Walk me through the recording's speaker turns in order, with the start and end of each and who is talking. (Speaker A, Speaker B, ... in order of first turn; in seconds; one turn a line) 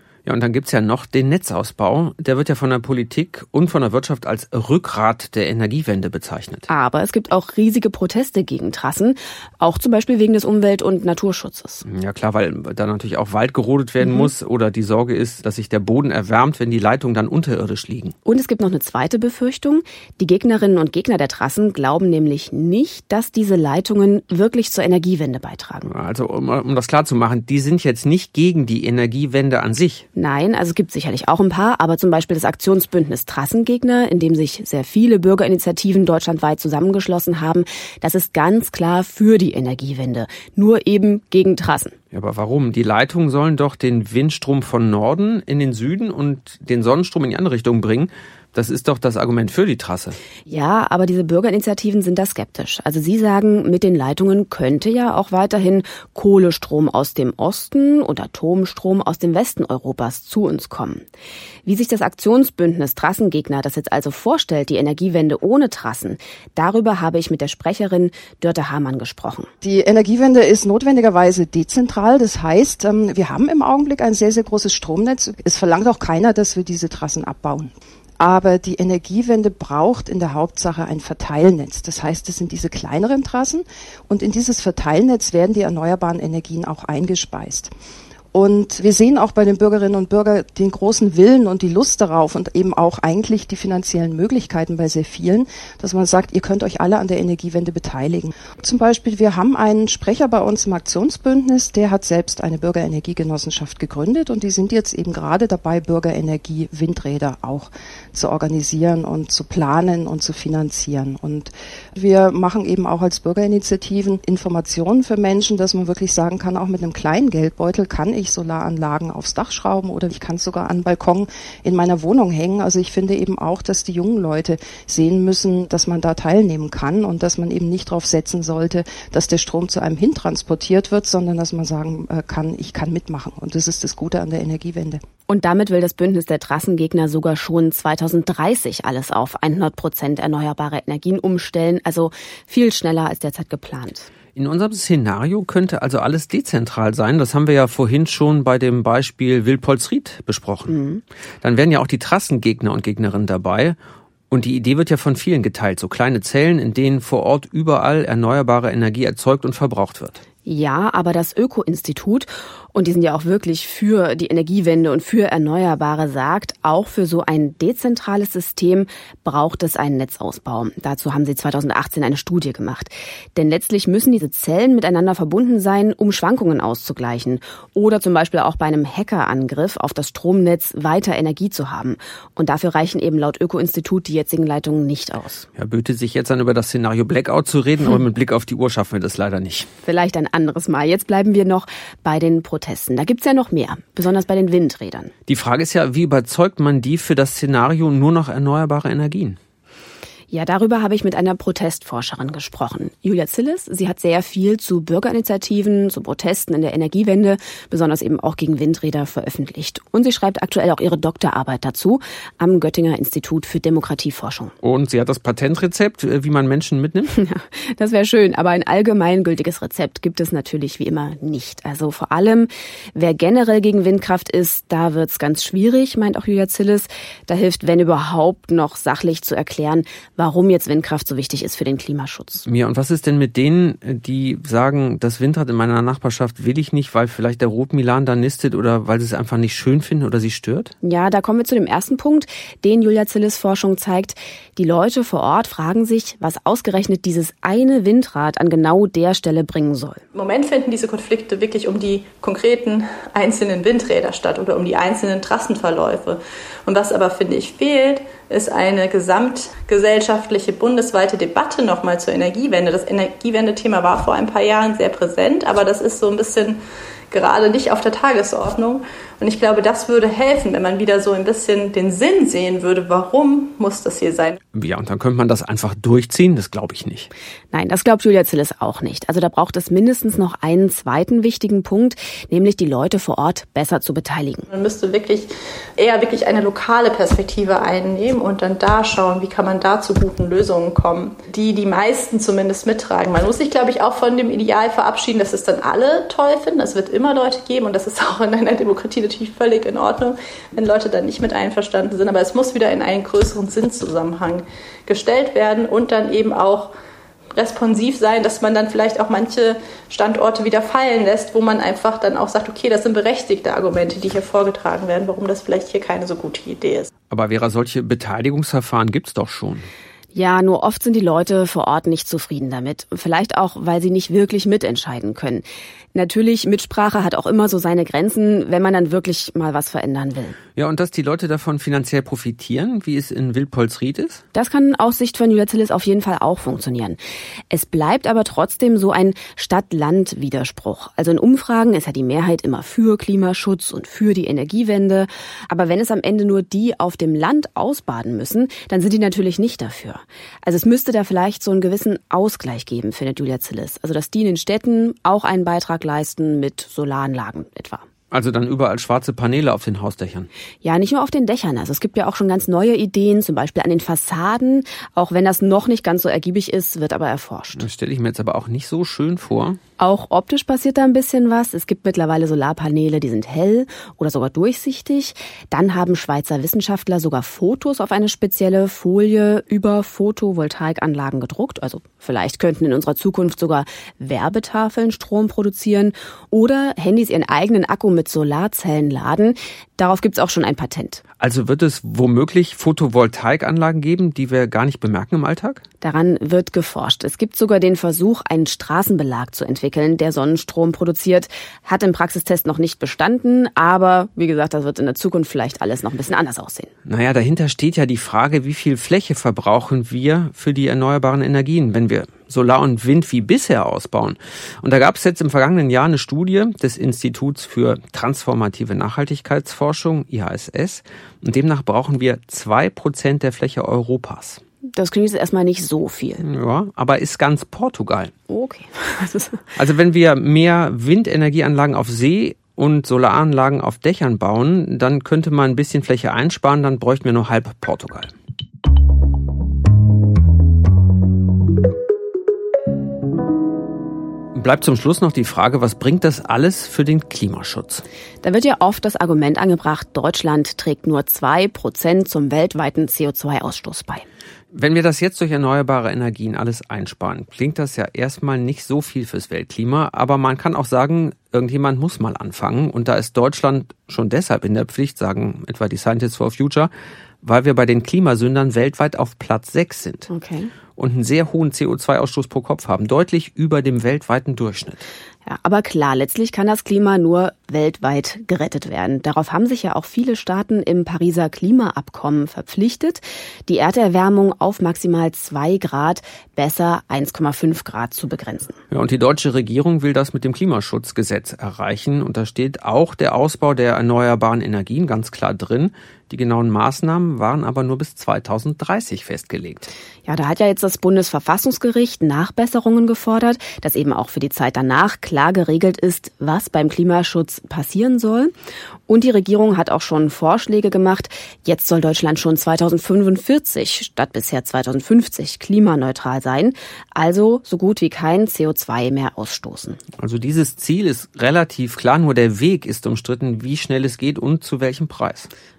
Speaker A: 0.2-6.7
Speaker B: 6.7-11.8
Speaker A: 11.8-18.1
Speaker B: 14.0-14.3
Speaker B: 18.2-25.9
Speaker A: 25.9-30.0
Speaker B: 30.1-41.9
Speaker A: 42.1-50.1
Speaker B: 50.5-61.0
Speaker B: 61.6-69.5
Speaker C: 69.6-87.7
Speaker C: 88.3-135.0
Speaker B: 135.3-144.1
Speaker A: 144.3-150.8
Speaker B: 150.7-151.0
Speaker A: 151.4-153.8
Speaker A: 154.3-160.2
Speaker B: 160.4-185.4
Speaker A: 185.6-189.7
Speaker B: 189.8-195.1
Speaker A: 195.3-199.4
Speaker B: 200.3-214.5
Speaker A: 214.6-217.1
Speaker B: 217.1-232.4
Speaker A: 232.4-240.7
Speaker B: 240.8-250.0
Speaker D: 250.1-266.6
Speaker D: 267.1-274.4
Speaker A: 274.5-277.1
Speaker B: 277.5-284.5
Speaker D: 284.5-306.7
Speaker D: 307.3-316.9
Speaker A: 317.1-319.7
Speaker B: 320.1-325.4
Speaker B: 325.9-330.4
Speaker A: 330.6-334.2
Speaker B: 334.3-337.0
Speaker B: 337.5-357.9
Speaker A: 358.1-360.3
Speaker B: 360.6-367.7
Speaker A: 367.6-369.6
Speaker B: 369.8-391.0
Speaker A: 391.2-395.6
Speaker B: 395.8-406.7
Speaker A: 406.9-424.4
Speaker B: 424.7-426.2
Speaker A: 426.2-428.1
Speaker B: 428.3-429.4
Speaker A: 429.6-438.1
Speaker A: 444.3-447.8
Speaker B: 448.2-454.0
Speaker A: 454.5-466.7
Speaker A: 467.2-470.1
Speaker B: 470.1-470.5
Speaker A: 470.8-474.8
Speaker B: 475.2-488.6
Speaker A: 488.7-499.7
Speaker B: 500.1-508.3
Speaker B: 508.9-519.8
Speaker A: 520.0-525.3